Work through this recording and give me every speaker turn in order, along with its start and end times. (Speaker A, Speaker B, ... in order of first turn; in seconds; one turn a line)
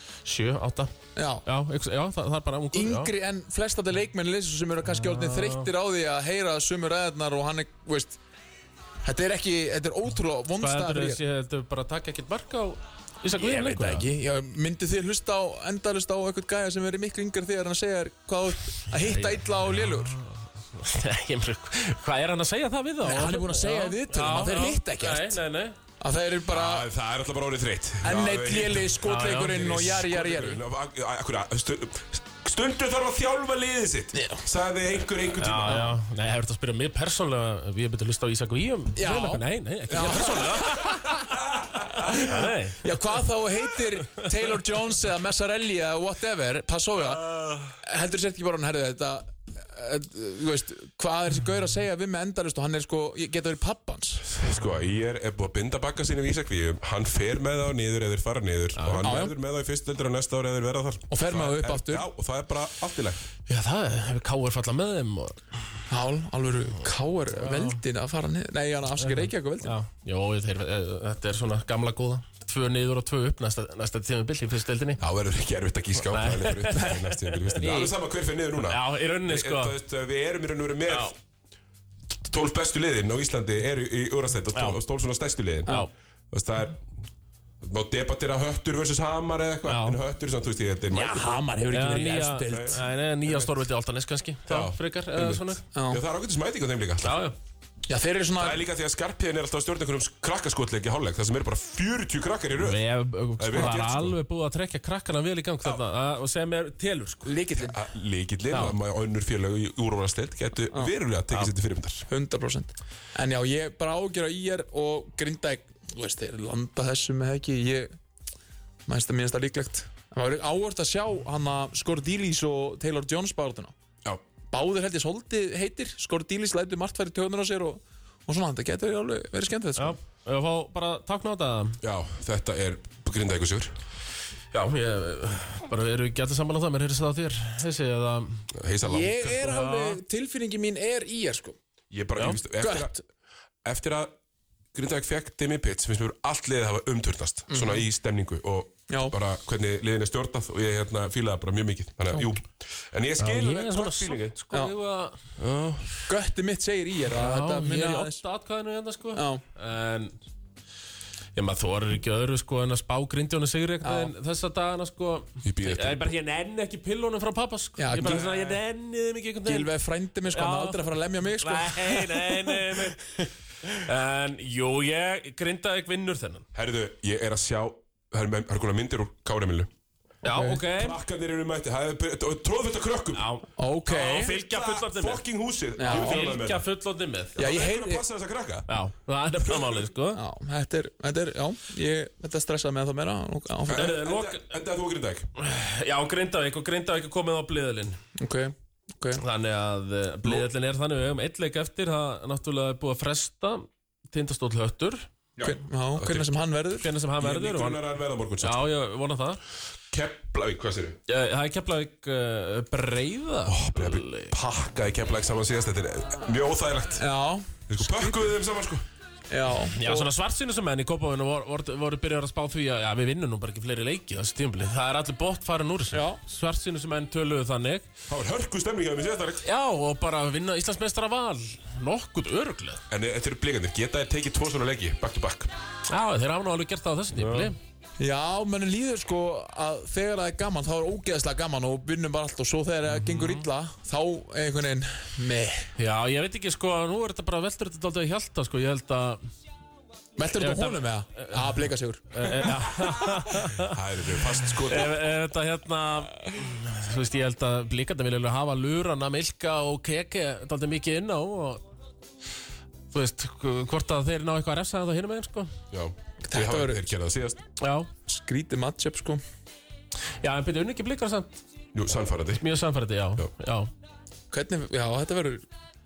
Speaker A: 0.2-3.1
Speaker B: 1.2-1.4
Speaker B: 2.7-8.2
Speaker A: 4.9-5.7
Speaker B: 9.0-11.2
Speaker A: 10.6-14.1
Speaker B: 13.3-20.2
Speaker A: 18.9-25.8
Speaker B: 23.0-25.4
Speaker B: 26.0-26.9
Speaker C: 26.5-35.9
Speaker B: 28.0-30.6
Speaker A: 29.0-30.0
Speaker B: 34.1-34.5
Speaker A: 35.4-41.3
Speaker B: 39.0-41.1
Speaker C: 41.5-42.1
Speaker A: 41.9-42.9
Speaker B: 42.2-47.3
Speaker B: 47.8-54.3
Speaker C: 54.2-63.2
Speaker A: 58.8-59.1
Speaker B: 59.0-59.3
Speaker B: 61.1-62.1
Speaker A: 63.5-65.4
Speaker B: 65.9-69.7
Speaker A: 67.4-67.8
Speaker A: 69.0-75.0
Speaker C: 75.0-81.2
Speaker A: 76.0-77.9
Speaker B: 77.5-77.9
Speaker A: 78.6-79.8
Speaker A: 80.9-81.1
Speaker C: 82.2-86.8
Speaker A: 84.5-84.8
Speaker C: 87.6-91.4
Speaker A: 89.7-90.0
Speaker B: 90.9-92.8
Speaker A: 91.7-95.6
Speaker C: 92.5-92.8
Speaker C: 94.5-97.2
Speaker B: 95.7-96.0
Speaker A: 97.0-97.4
Speaker B: 97.9-98.6
Speaker C: 98.4-102.8
Speaker A: 102.6-107.3
Speaker C: 103.4-104.2
Speaker B: 107.2-107.8
Speaker C: 107.7-112.1
Speaker B: 112.1-117.9
Speaker B: 118.9-123.7
Speaker B: 124.5-130.0
Speaker A: 129.8-131.8
Speaker C: 131.8-133.8
Speaker A: 134.5-140.0
Speaker C: 138.5-139.2
Speaker B: 138.8-141.6
Speaker C: 141.9-143.0
Speaker B: 142.6-142.9
Speaker C: 143.6-144.1
Speaker C: 144.7-154.3
Speaker B: 147.5-147.8
Speaker B: 148.9-149.1
Speaker A: 153.2-155.2
Speaker C: 155.4-155.9
Speaker B: 156.1-158.2
Speaker A: 157.1-160.2
Speaker B: 159.1-159.4
Speaker A: 161.3-169.7
Speaker B: 163.8-164.1
Speaker C: 165.4-166.1
Speaker B: 167.8-168.4
Speaker C: 168.0-168.6
Speaker B: 169.5-172.9
Speaker A: 170.3-176.5
Speaker C: 176.6-179.7
Speaker A: 180.2-181.0
Speaker B: 180.2-180.6
Speaker C: 180.7-183.3
Speaker A: 183.1-185.2
Speaker B: 183.6-184.3
Speaker C: 184.0-186.7
Speaker B: 185.8-186.3
Speaker A: 185.8-187.4
Speaker B: 187.4-188.1
Speaker C: 187.4-188.7
Speaker A: 188.7-190.2
Speaker B: 190.1-193.9
Speaker A: 193.7-194.4
Speaker C: 193.7-195.3
Speaker A: 195.4-198.0
Speaker B: 198.2-199.2
Speaker A: 199.1-205.1
Speaker C: 205.4-206.3
Speaker B: 205.4-206.9
Speaker A: 206.8-207.8
Speaker C: 207.2-208.7
Speaker A: 208.4-209.4
Speaker C: 209.9-211.0
Speaker A: 211.1-214.4
Speaker C: 213.5-217.0
Speaker B: 217.0-218.3
Speaker C: 217.7-218.8
Speaker B: 219.3-220.1
Speaker A: 219.7-227.9
Speaker B: 225.9-226.2
Speaker C: 228.1-229.4
Speaker A: 229.4-232.8
Speaker C: 232.9-235.5
Speaker A: 235.9-237.6
Speaker C: 237.1-237.5
Speaker B: 238.0-245.7
Speaker A: 242.9-243.5
Speaker A: 245.8-249.3
Speaker B: 250.2-252.6
Speaker A: 250.4-253.8
Speaker C: 253.5-255.0
Speaker A: 254.5-261.7
Speaker A: 262.9-265.6
Speaker C: 265.7-267.4
Speaker B: 266.2-266.8
Speaker A: 267.6-267.9
Speaker B: 268.1-269.2
Speaker A: 270.2-271.4
Speaker C: 271.7-272.4
Speaker A: 272.4-273.7
Speaker B: 274.3-275.4